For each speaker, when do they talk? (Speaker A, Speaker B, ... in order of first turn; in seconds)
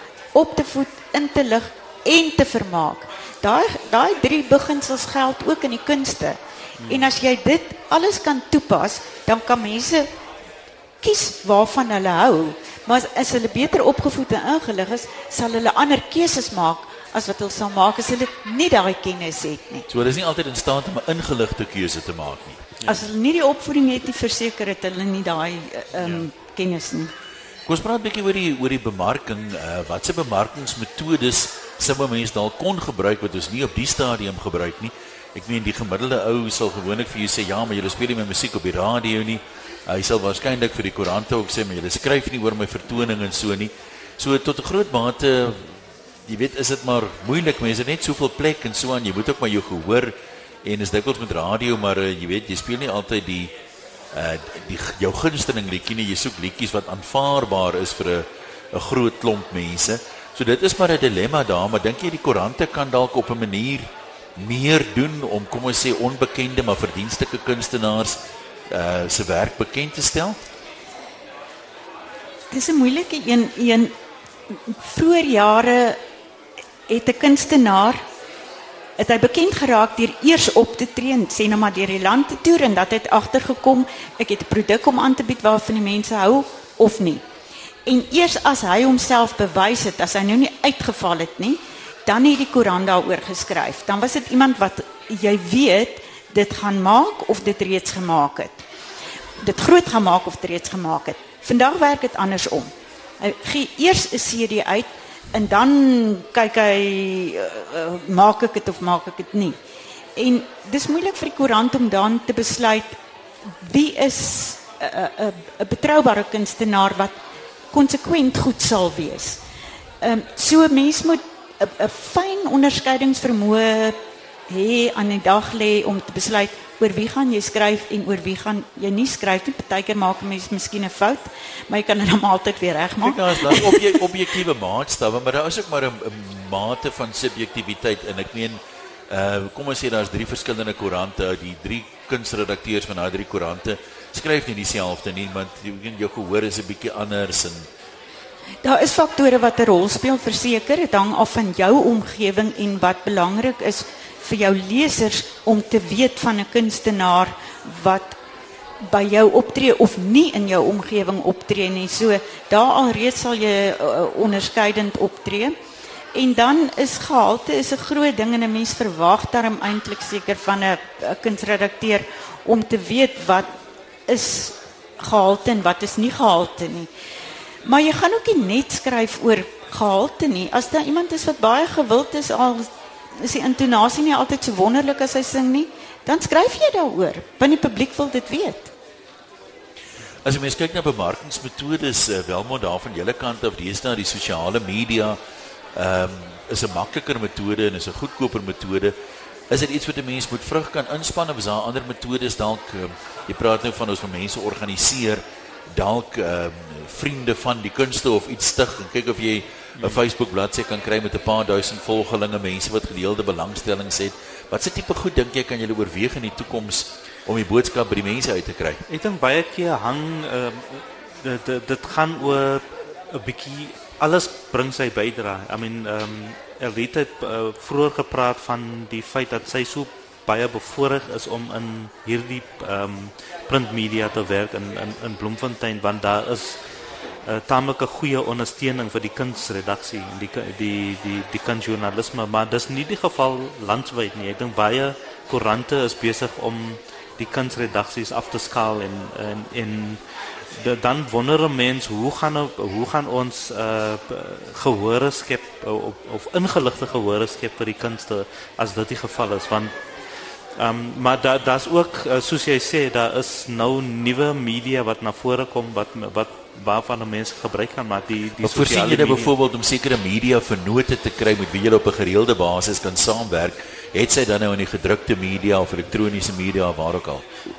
Speaker A: 0.3-10.1, 11.0-19.9, 22.9-27.1, 72.5-73.9, 74.5-76.0, 76.9-78.0, 79.0-87.2, 87.8-98.6, 99.4-109.6, 110.2-113.0, 113.6-117.1, 117.7-119.4, 120.0-124.0, 124.5-134.0, 148.6-158.2, 158.8-165.5, 166.1-173.5, 174.1-176.9, 177.6-188.7
Speaker B: 6.8-7.1, 218.9-236.6, 237.2-250.0, 250.5-259.7, 260.6-269.3
Speaker C: 19.9-22.6, 27.7-53.5, 54.1-70.4, 133.0-147.7, 190.2-195.2, 195.7-198.9, 199.5-218.8, 268.4-277.2